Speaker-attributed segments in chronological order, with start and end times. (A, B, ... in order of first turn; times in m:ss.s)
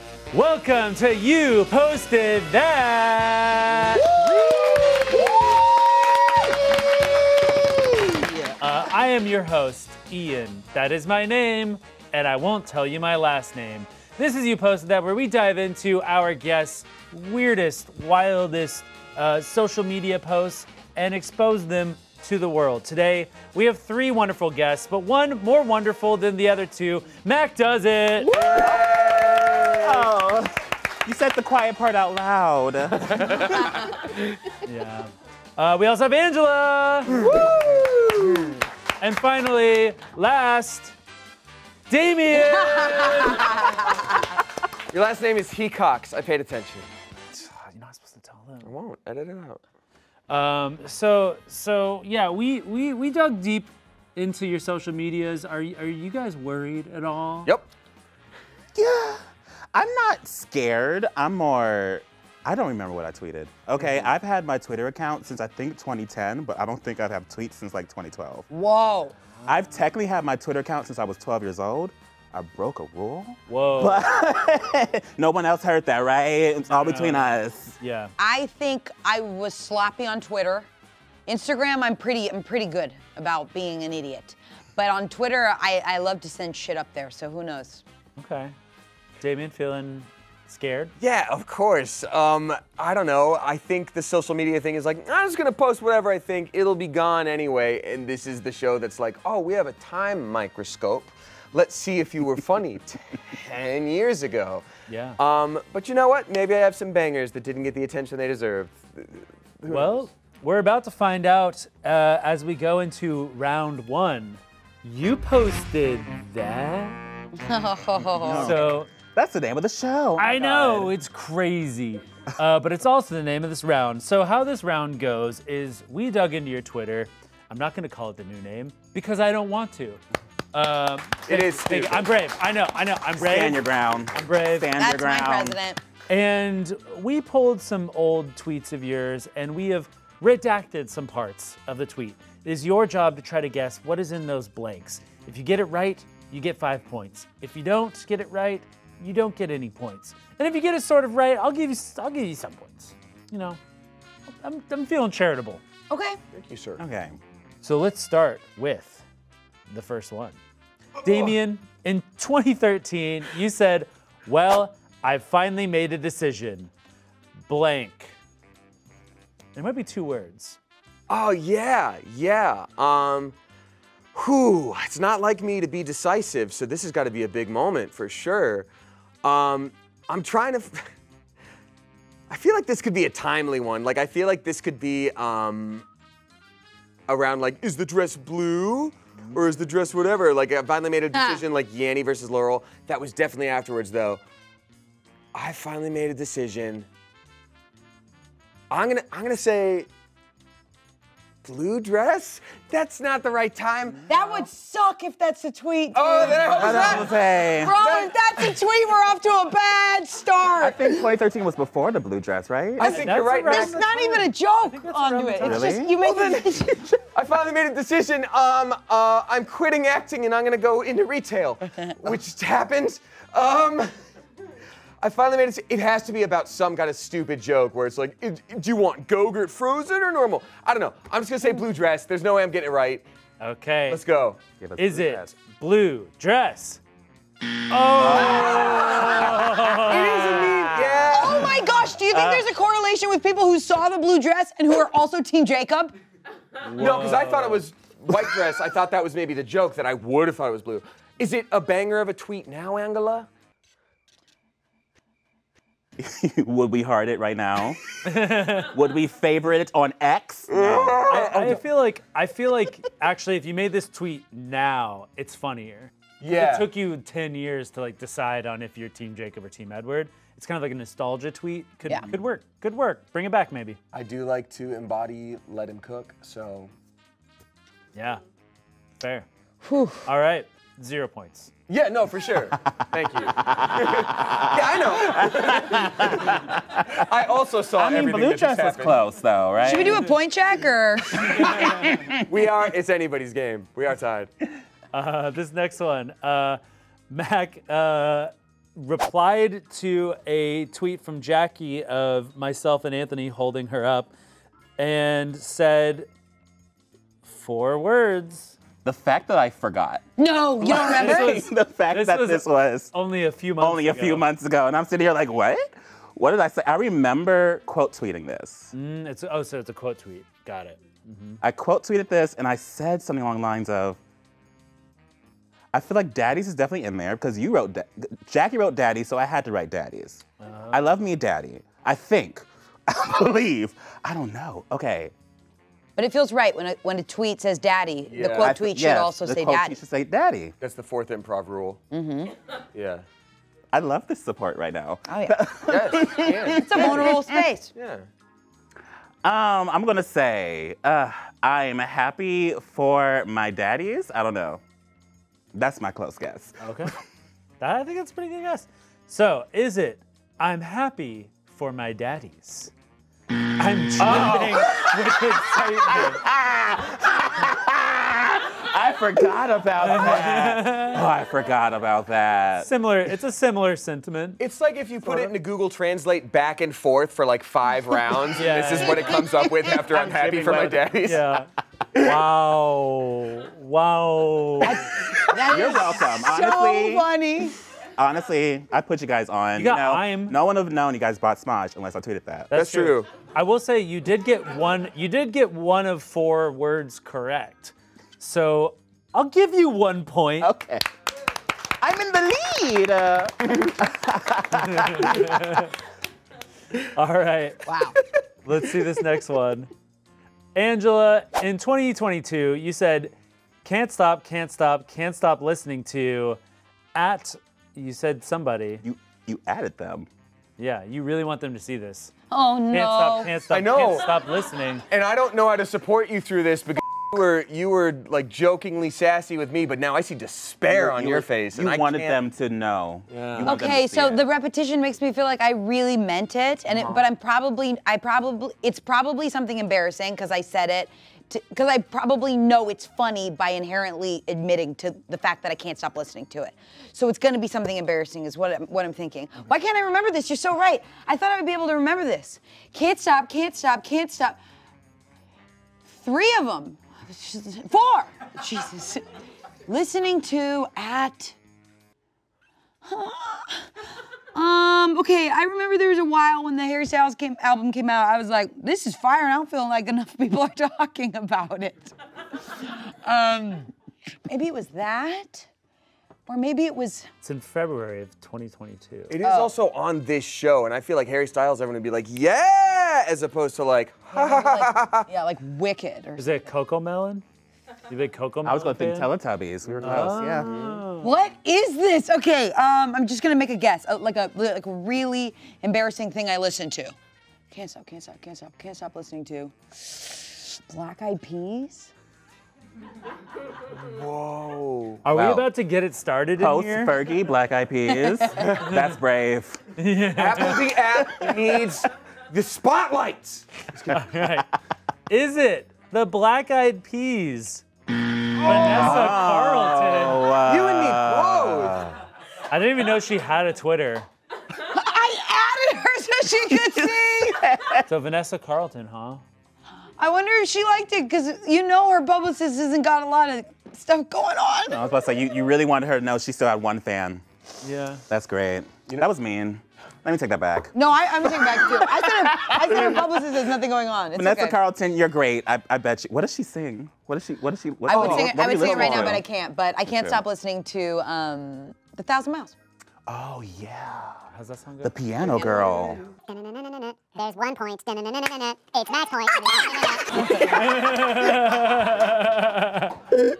0:00.3-0:04.0 A
0:04.1-0:05.3 B
0:04.1-0:05.6 C
0:06.4-0:06.8 C
0:07.7-0:08.5 C
0:08.6-0:28.3 A
0:28.2-0:30.1 B
0:28.3-0:33.7 C
0:34.6-0:37.3 A
0:37.1-0:38.6 B
0:39.0-0:40.9 A
0:41.9-0:43.7 A
0:42.3-0:44.2 D
0:44.9-0:46.9 B
0:47.3-0:48.7 A
0:48.6-0:49.6 B
0:50.3-0:57.5 A
0:58.7-1:08.4 C
1:03.8-1:04.1 A
1:08.5-1:09.1 D
1:09.4-1:17.8 C
1:13.5-1:14.0 A
1:16.7-1:18.1 A
1:18.2-1:20.7 D
1:21.3-1:27.8 D
1:28.2-1:28.5 A
1:29.2-1:30.9 A
1:31.0-1:44.6 B
1:44.9-1:45.2 A
1:45.2-1:50.1 B
1:49.7-1:57.0 A
1:57.4-1:58.6 D
1:58.1-2:00.9 C
1:58.4-1:58.9 A
2:00.2-2:10.0 A
2:10.5-2:14.7 A
2:11.3-2:12.1 B
2:13.2-2:15.6 C
2:14.7-2:15.8 D
2:16.1-2:33.6 A
2:34.3-2:35.6 A
2:35.9-2:36.2 D
2:36.3-2:36.8 B
2:36.8-2:37.2 C
2:37.6-2:39.0 A
2:39.7-2:40.4 A
2:41.0-2:46.7 A
2:47.5-2:48.2 A
2:49.5-2:50.6 A
2:51.1-2:53.3 B
2:54.1-2:58.7 B
2:59.2-3:00.9 B
3:02.3-3:05.8 B
3:07.1-3:14.2 B
3:11.1-3:11.4 D
3:15.3-3:16.9 B
3:18.7-3:19.9 B
3:21.4-3:24.1 B
3:24.1-3:31.0 D
3:25.9-3:28.6 B
3:26.5-3:27.8 C
3:30.6-3:32.9 C
3:32.8-3:33.8 B
3:32.8-3:37.0 D
3:32.8-3:35.8 A
3:35.4-3:35.9 C
3:36.0-3:43.9 B
3:45.0-3:53.0 B
3:53.4-3:54.0 A
3:53.9-3:54.4 B
3:54.6-3:55.3 C
3:54.8-3:56.8 A
3:57.7-4:00.5 A
3:57.9-4:01.5 C
3:58.2-3:58.8 D
3:59.8-4:01.6 B
4:00.6-4:05.9 D
4:02.0-4:02.5 C
4:06.6-4:07.6 A
4:06.8-4:13.3 B
4:16.0-4:17.8 C
4:18.0-4:18.7 A
4:18.7-4:21.2 C
4:20.5-4:21.6 B
4:21.1-4:33.8 A
4:26.2-4:26.7 B
4:33.9-4:36.7 B
4:37.9-4:38.2 A
4:39.0-4:39.3 A
4:39.6-4:40.0 D
4:40.0-4:41.5 A
4:41.7-4:49.0 B
4:43.4-4:47.0 C
4:47.7-4:50.1 C
4:49.6-4:51.7 D
4:51.3-4:52.0 A
4:51.3-4:52.2 C
4:52.2-4:54.3 B
4:54.9-5:04.1 A
5:04.8-5:06.1 A
5:07.2-5:08.5 A
5:08.8-5:10.0 C
5:10.2-5:11.5 D
5:10.6-5:12.9 C
5:10.6-5:14.3 A
5:13.6-5:18.7 C
5:18.7-5:21.4 A
5:21.4-5:24.0 C
5:25.7-5:35.1 C
5:30.4-5:30.9 A
5:36.0-5:39.7 D
5:38.1-5:38.6 B
5:38.4-5:40.5 C
5:40.6-5:41.8 B
5:41.9-5:42.3 D
5:42.7-5:43.0 B
5:43.7-5:47.4 C
5:45.1-5:45.4 D
5:45.6-5:47.2 B
5:46.5-5:47.7 D
5:47.7-5:48.0 B
5:49.2-5:54.6 C
5:55.5-5:56.9 C
5:56.6-5:56.9 A
5:57.6-6:02.7 A
6:03.4-6:06.2 A
6:04.0-6:12.7 C
6:09.8-6:11.0 A
6:12.6-6:14.4 A
6:14.4-6:21.2 B
6:18.3-6:19.1 A
6:19.0-6:19.7 D
6:19.7-6:21.0 C
6:20.9-6:24.8 A
6:24.6-6:27.6 D
6:24.9-6:27.1 C
6:25.4-6:25.8 B
6:28.0-6:32.5 C
6:29.6-6:30.4 A
6:32.5-6:40.5 A
6:32.5-6:33.0 B
6:40.4-6:40.8 C
6:41.8-6:45.6 C
6:44.5-6:45.7 A
6:46.8-6:47.6 A
6:47.6-6:48.0 D
6:48.4-6:49.7 A
6:50.5-6:56.4 A
6:56.9-6:58.8 A
6:58.8-7:00.1 C
7:00.6-7:02.1 A
7:02.3-7:03.4 D
7:02.7-7:04.8 A
7:03.5-7:04.1 B
7:04.9-7:12.2 B
7:10.7-7:14.2 C
7:13.1-7:13.6 B
7:13.4-7:34.4 D
7:16.7-7:17.0 B
7:35.9-7:39.0 D
7:39.6-7:41.4 D
7:42.8-7:43.7 D
7:44.3-7:53.7 D
7:54.3-7:55.5 D
7:56.3-7:57.1 D
7:57.2-7:59.2 A
7:59.1-8:05.1 B
7:59.2-7:59.5 D
8:04.1-8:06.2 D
8:06.2-8:07.2 A
8:07.9-8:09.1 A
8:08.4-8:10.5 C
8:09.6-8:10.8 B
8:09.8-8:11.1 A
8:11.0-8:17.0 D
8:17.5-8:21.9 D
8:23.7-8:25.0 B
8:25.0-8:27.0 A
8:25.0-8:25.5 C
8:26.4-8:29.6 C
8:27.9-8:28.4 D
8:28.4-8:28.6 B
8:28.6-8:28.9 A
8:29.8-8:30.7 A
8:30.2-8:34.0 B
8:33.9-8:34.5 A
8:35.1-8:37.6 A
8:38.3-8:42.0 C
8:38.4-8:40.3 A
8:40.4-8:41.9 B
8:42.5-8:44.1 A
8:44.6-8:47.5 D
8:46.6-8:47.8 C
8:47.9-8:49.2 A
8:50.0-8:54.8 D
8:54.7-8:57.2 C
8:57.6-8:58.0 A
8:58.1-9:03.2 C
9:00.7-9:04.6 D
9:04.1-9:09.2 C
9:07.8-9:12.5 D
9:07.9-9:09.2 B
9:09.8-9:10.2 C
9:13.1-9:14.3 C
9:14.3-9:15.0 A
9:14.8-9:16.0 C
9:15.5-9:16.0 D
9:16.2-9:20.6 E
9:20.2-9:23.0 A